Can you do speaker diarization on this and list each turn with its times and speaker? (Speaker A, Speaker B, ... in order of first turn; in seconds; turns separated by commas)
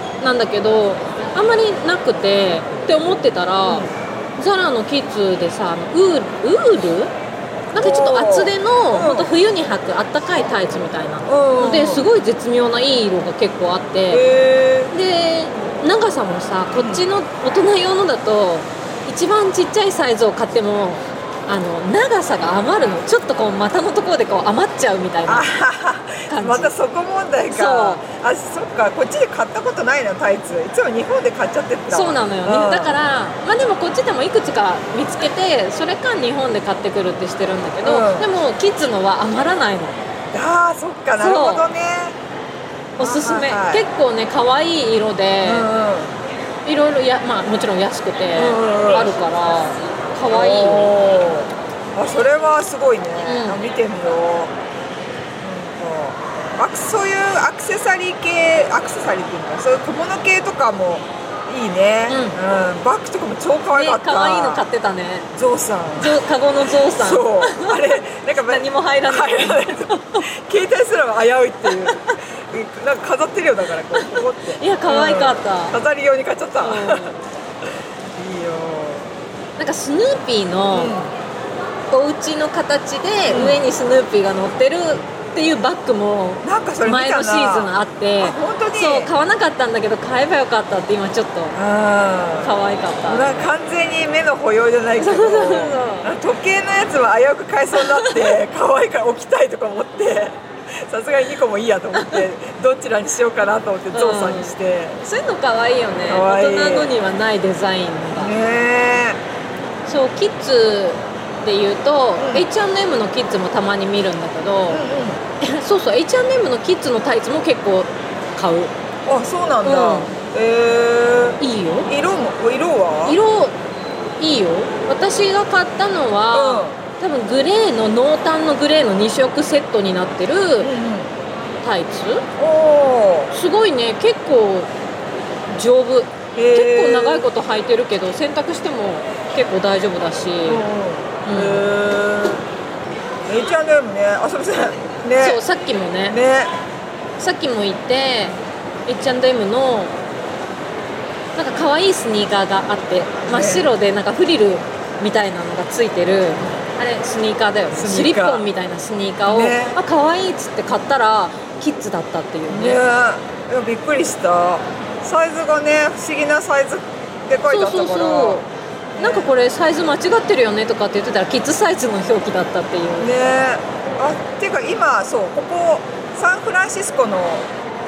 Speaker A: 0.2-7.1, Speaker B: 3.6-3.9, Speaker A: 7.7-14.2, Speaker B: 7.7-9.3, Speaker B: 11.3-12.1, Speaker B: 14.1-14.9, Speaker A: 14.9-25.5, Speaker B: 16.7-17.0, Speaker B: 25.2-33.0, Speaker A: 26.3-26.7, Speaker A: 27.5-28.0, Speaker A: 31.9-40.0, Speaker B: 37.8-38.3, Speaker B: 40.3-42.2, Speaker A: 41.2-41.7, Speaker A: 43.0-45.7, Speaker B: 43.0-43.8, Speaker B: 45.4-46.1, Speaker A: 46.6-50.9, Speaker B: 48.4-49.1, Speaker B: 50.3-54.5, Speaker A: 53.2-53.6, Speaker B: 55.4-64.6, Speaker A: 62.1-62.4, Speaker A: 63.7-65.3, Speaker B: 65.3-66.2, Speaker A: 66.0-70.2, Speaker B: 67.0-77.1, Speaker A: 71.7-72.1, Speaker A: 74.0-75.8, Speaker A: 76.6-77.2, Speaker B: 78.1-79.1, Speaker A: 79.6-81.0, Speaker B: 80.7-81.1, Speaker A: 81.9-91.6, Speaker B: 83.3-83.6, Speaker B: 86.4-89.1, Speaker B: 91.5-92.5, Speaker A: 92.4-93.5, Speaker B: 93.1-105.0, Speaker A: 95.0-96.1, Speaker A: 97.8-98.3, Speaker A: 102.0-102.2, Speaker A: 103.9-108.3, Speaker B: 106.1-106.9, Speaker B: 108.2-109.2, Speaker A: 109.9-114.8, Speaker B: 112.2-112.5, Speaker B: 114.7-115.2, Speaker A: 115.4-118.7, Speaker B: 119.0-123.2, Speaker A: 119.6-120.1, Speaker A: 121.4-121.9, Speaker A: 123.0-123.5, Speaker A: 124.2-130.7, Speaker B: 126.3-126.8, Speaker B: 130.6-131.1, Speaker A: 131.6-132.2, Speaker B: 132.4-133.3, Speaker A: 133.3-134.7, Speaker A: 135.5-140.6, Speaker B: 136.3-137.3, Speaker B: 140.4-142.4, Speaker A: 141.2-141.7, Speaker B: 143.3-145.4, Speaker A: 145.2-146.2, Speaker B: 146.1-146.5, Speaker A: 147.2-149.9, Speaker A: 151.3-162.8, Speaker B: 153.3-153.7, Speaker B: 157.7-158.5, Speaker B: 159.2-159.8, Speaker B: 162.5-168.4, Speaker A: 167.5-168.4, Speaker B: 168.9-169.3, Speaker A: 169.0-173.1, Speaker B: 173.0-177.5